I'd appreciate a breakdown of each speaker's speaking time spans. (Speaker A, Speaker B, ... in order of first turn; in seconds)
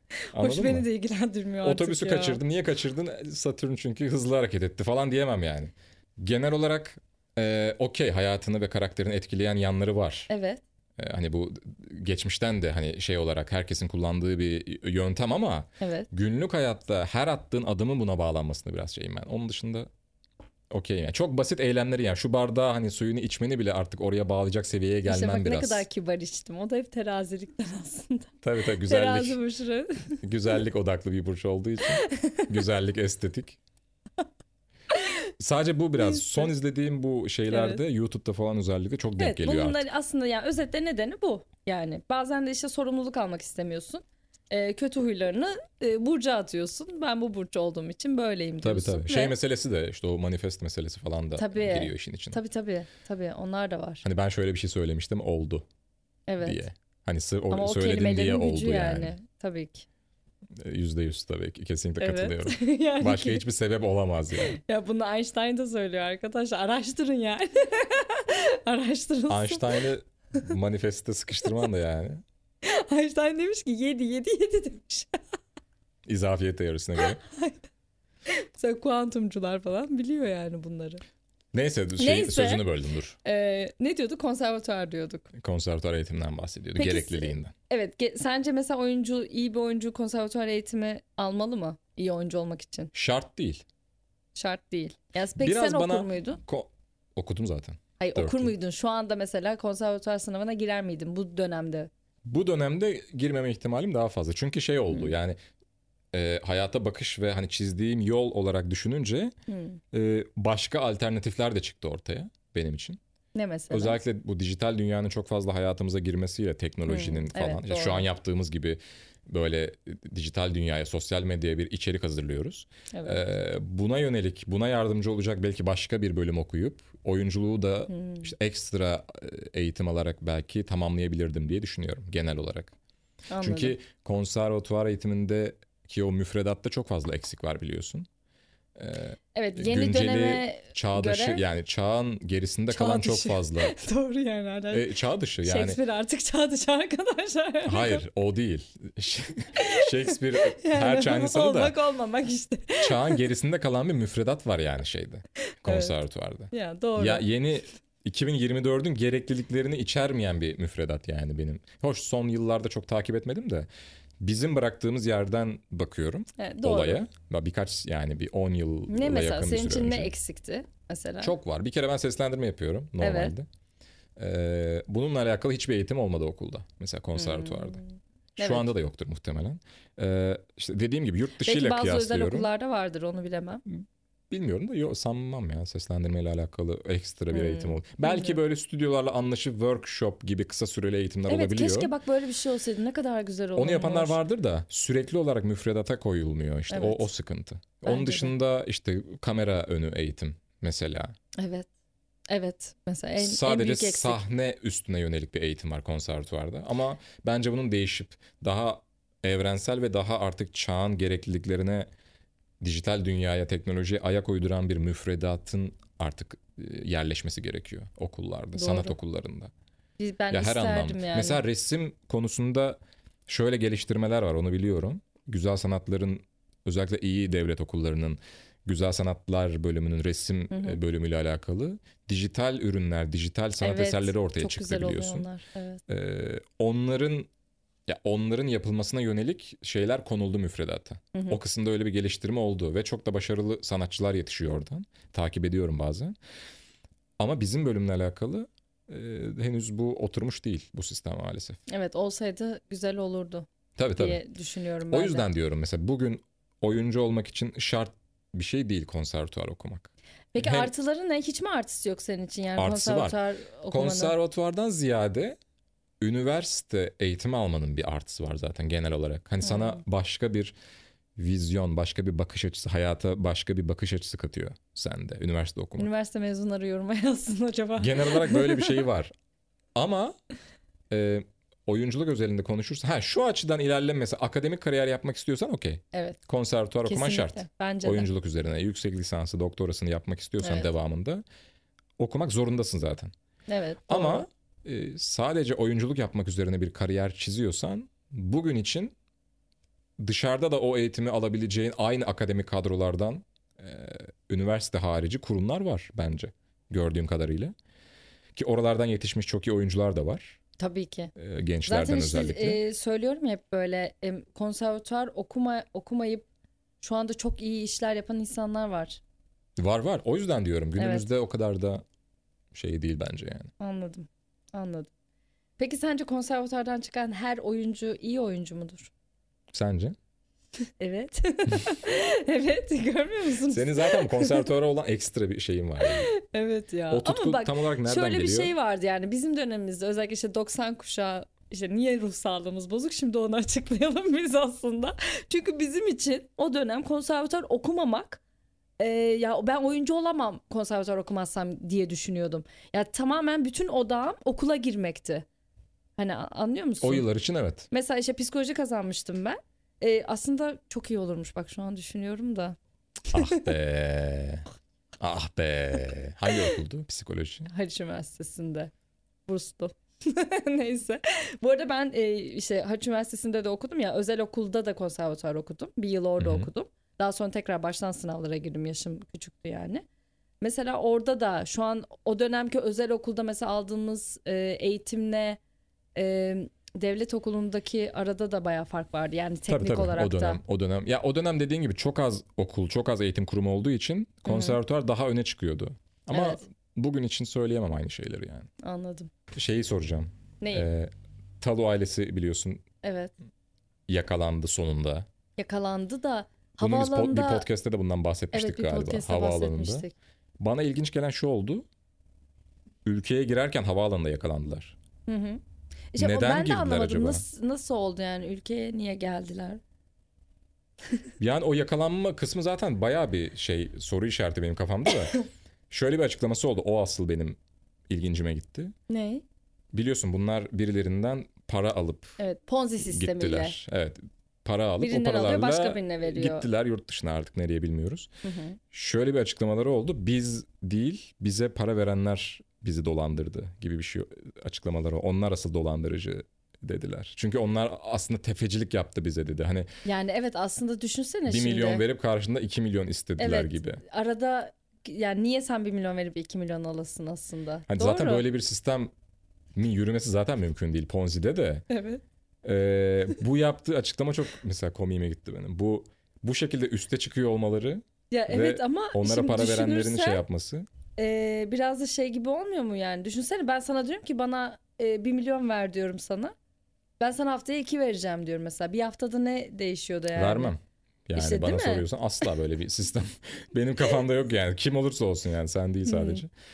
Speaker A: 0.3-2.4, 10.3-10.6, 15.8-16.1, 25.1-28.3, 28.8-30.2, 31.9-32.5, 36.0-36.4, 37.5-37.8, 39.2-49.4, 51.4-54.0, 56.3-56.6, 57.5-59.9, 62.0-63.4, 64.5-69.8, 72.6-75.2, 77.0-77.7, 78.3-81.0, 82.0-82.7, 83.2-85.3, 86.8-92.9, 94.3-96.4, 98.0-101.9, 109.5-109.8, 113.3-114.0, 116.9-118.1, 122.9-123.2, 127.9-128.3, 133.3-133.8, 139.3-141.4, 142.7-144.9, 145.4-148.0, 149.6-153.2, 155.6-156.0, 156.5-157.3, 166.4-167.0, 168.9-171.3, 173.0-173.3, 177.2-178.7, 181.4-183.6, 187.3-188.4, 191.3-194.2, 196.7-197.1, 197.8-198.3, 201.4-201.7, 202.3-204.2, 218.6-219.0, 220.0-221.4, 230.5-230.8, 233.6-235.8, 241.1-241.4, 251.7-255.3, 260.3-264.1, 269.4-269.8, 275.8-278.8, 285.9-286.2, 286.9-288.1, 290.4-290.7, 293.5-294.3, 310.6-311.1, 311.7-316.3, 316.8-319.0, 320.8-321.1, 323.6-324.9, 325.6-328.9, 330.8-334.4, 335.8-348.2, 348.8-355.3, 356.0-357.1, 357.7-362.6, 363.1-363.5, 367.5-368.7, 369.3-379.9, 380.4-385.4, 385.9-390.4, 394.3-394.6, 396.1-396.4, 398.6-399.1, 400.4-400.7, 402.8-403.1, 405.4-407.5, 408.3-409.9, 415.1-415.4, 415.9-419.6, 428.9-429.2, 432.2-433.6, 434.8-436.5, 438.2-438.6, 449.9-451.8, 453.2-458.2, 461.7-462.0, 468.1-470.2, 471.0-476.3, 477.0-480.5, 481.1-481.9, 485.9-486.2
Speaker B: 0.3-0.9, 1.6-10.3, 11.0-19.9, 20.7-25.9, 28.4-29.4, 30.2-33.6, 35.4-39.9, 48.6-52.4, 54.0-55.7, 56.4-59.1, 60.6-64.6, 69.3-72.2, 76.1-77.2, 81.5-83.2, 85.3-87.5, 92.9-93.6, 95.4-98.5, 102.2-105.4, 106.1-109.3, 109.9-113.0, 113.7-132.7, 133.4-138.1, 138.8-143.8, 144.7-145.8, 147.7-151.8, 152.8-163.7, 164.2-170.1, 171.2-173.5, 174.2-177.8, 178.4-182.5, 183.7-191.9, 193.6-201.2, 203.2-211.9, 212.6-219.5, 220.3-235.3, 235.9-237.3, 237.9-246.2, 247.2-251.6, 253.8-254.2, 254.9-260.7, 262.6-265.4, 266.0-270.6, 271.2-275.9, 277.8-279.1, 279.8-280.2, 280.9-291.2, 292.0-293.1, 293.9-298.9, 300.0-307.5, 308.4-310.4, 311.2-312.6, 319.6-321.8, 322.5-323.5, 329.5-330.0, 333.5-336.1, 336.9-338.5, 356.8-357.7, 363.1-364.4, 365.0-367.5, 376.2-376.5, 389.5-398.5, 399.3-402.6, 403.9-405.1, 406.6-409.9, 410.4-411.7, 412.9-414.8, 416.0-417.2, 421.2-425.2, 425.7-427.4, 427.9-428.7, 429.7-432.2, 432.8-438.1, 438.7-449.7, 451.3-453.8, 457.7-458.9, 459.6-461.6, 462.4-470.7, 480.1-486.3